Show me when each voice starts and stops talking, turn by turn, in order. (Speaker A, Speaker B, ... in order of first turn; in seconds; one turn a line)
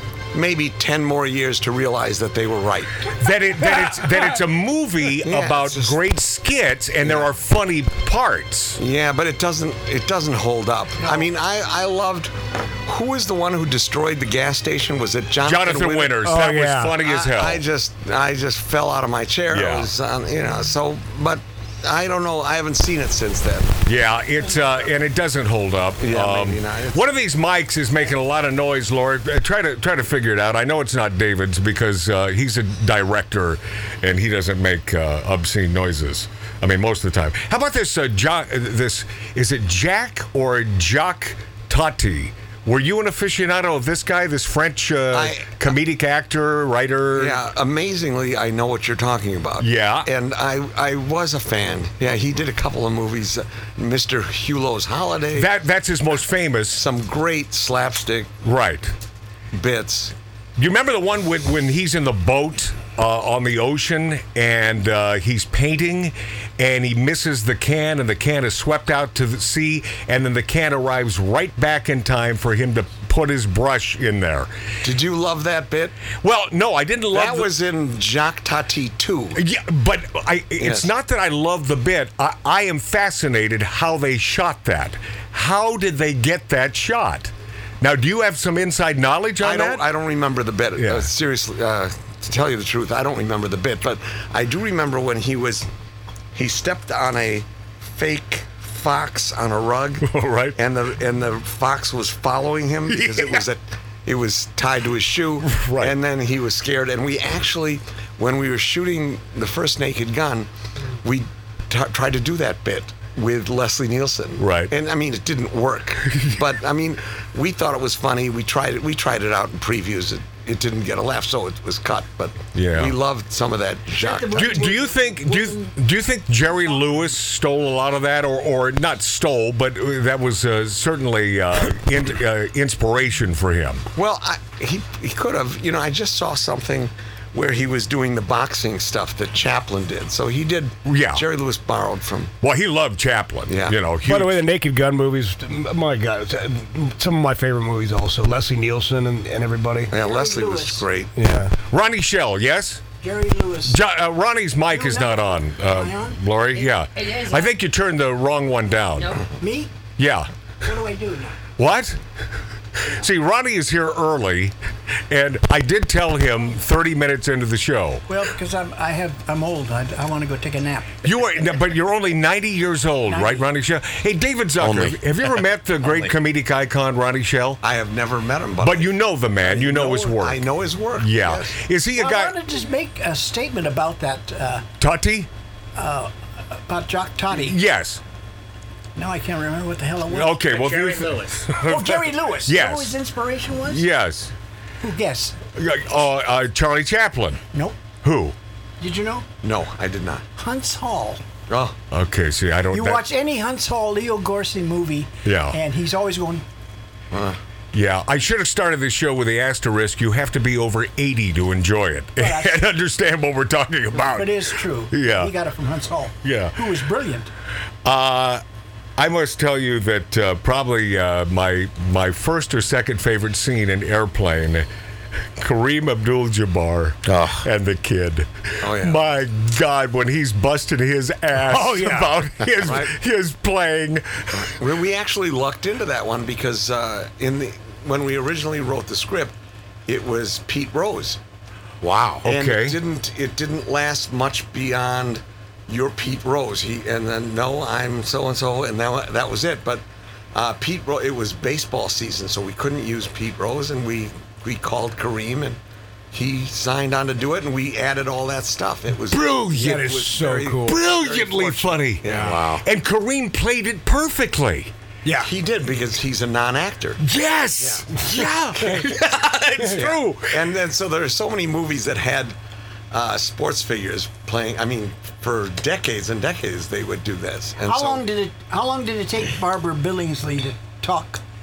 Speaker A: 0.3-3.1
Speaker B: 3.2-8.8
Speaker A: 5.2-6.0
Speaker A: 7.0-7.3
Speaker A: 8.8-16.3
Speaker B: 15.4-17.6
Speaker C: 16.2-17.0
Speaker A: 17.0-23.8
Speaker B: 19.5-19.9
Speaker B: 23.9-47.4
Speaker A: 26.0-27.1
Speaker A: 45.1-45.5
Speaker A: 47.2-55.5
Speaker B: 49.6-50.1
Speaker B: 55.4-56.8
Speaker A: 56.7-58.4
Speaker B: 58.4-58.9
Speaker A: 59.5-60.1
Speaker B: 60.6-74.5
Speaker A: 74.8-76.0
Speaker B: 76.2-77.5
Speaker A: 77.1-79.4
Speaker B: 79.3-89.8
Speaker A: 80.6-80.9
Speaker A: 89.4-95.7
Speaker B: 90.8-91.1
Speaker A: 96.3-110.5
Speaker B: 100.0-100.6
Speaker B: 102.9-103.5
Speaker B: 105.4-106.0
Speaker A: 111.0-124.7
Speaker B: 114.4-114.7
Speaker B: 122.5-123.0
Speaker D: 124.0-125.7
Speaker B: 124.3-133.9
Speaker A: 133.9-142.3
Speaker B: 140.8-141.2
Speaker B: 142.4-144.4
Speaker A: 143.5-143.8
Speaker C: 144.0-149.9
Speaker A: 149.9-151.1
Speaker D: 149.9-150.9
Speaker C: 151.2-151.5
Speaker B: 151.7-152.8
Speaker D: 153.0-153.8
Speaker B: 153.7-159.2
Speaker D: 154.7-156.2
Speaker D: 159.4-159.7
Speaker B: 160.0-160.3
Speaker D: 160.6-161.4
Speaker B: 161.6-162.0
Speaker B: 162.8-164.6
Speaker B: 165.1-168.1
Speaker D: 168.1-171.0
Speaker B: 171.0-177.6
Speaker D: 173.1-173.4
Speaker A: 177.6-181.6
Speaker B: 178.6-180.4
Speaker B: 181.0-182.4
Speaker D: 182.0-184.7
Speaker B: 184.8-185.3
Speaker D: 185.8-187.6
Speaker B: 187.3-188.0
Speaker D: 189.0-190.6
Speaker B: 190.1-192.9
Speaker D: 191.6-193.9
Speaker B: 193.7-194.3
Speaker D: 194.8-195.4
Speaker B: 195.6-197.4
Speaker B: 198.0-198.4
Speaker D: 198.8-199.3
Speaker A: 199.4-200.2
Speaker D: 200.4-201.2
Speaker A: 201.5-201.8
Speaker B: 201.9-203.1
Speaker D: 202.7-206.4
Speaker B: 205.2-205.6
Speaker A: 207.1-207.4
Speaker B: 207.7-215.3
Speaker D: 212.2-212.7
Speaker D: 214.0-217.3
Speaker B: 216.2-216.6
Speaker B: 217.8-218.4
Speaker B: 219.0-224.7
Speaker B: 225.4-234.5
Speaker A: 228.6-229.0
Speaker C: 231.4-232.2
Speaker A: 232.6-233.0
Speaker A: 234.4-239.3
Speaker A: 239.9-241.2
Speaker B: 241.8-242.8
Speaker A: 242.2-255.6
Speaker A: 256.1-262.5
Speaker B: 259.1-259.9
Speaker C: 259.5-260.8
Speaker B: 260.6-264.7
Speaker C: 262.1-262.6
Speaker C: 265.1-265.3
Speaker A: 265.2-267.0
Speaker B: 267.0-270.5
Speaker A: 267.6-267.9
Speaker C: 269.6-269.9
Speaker A: 269.7-272.4
Speaker A: 272.9-278.1
Speaker D: 277.7-281.2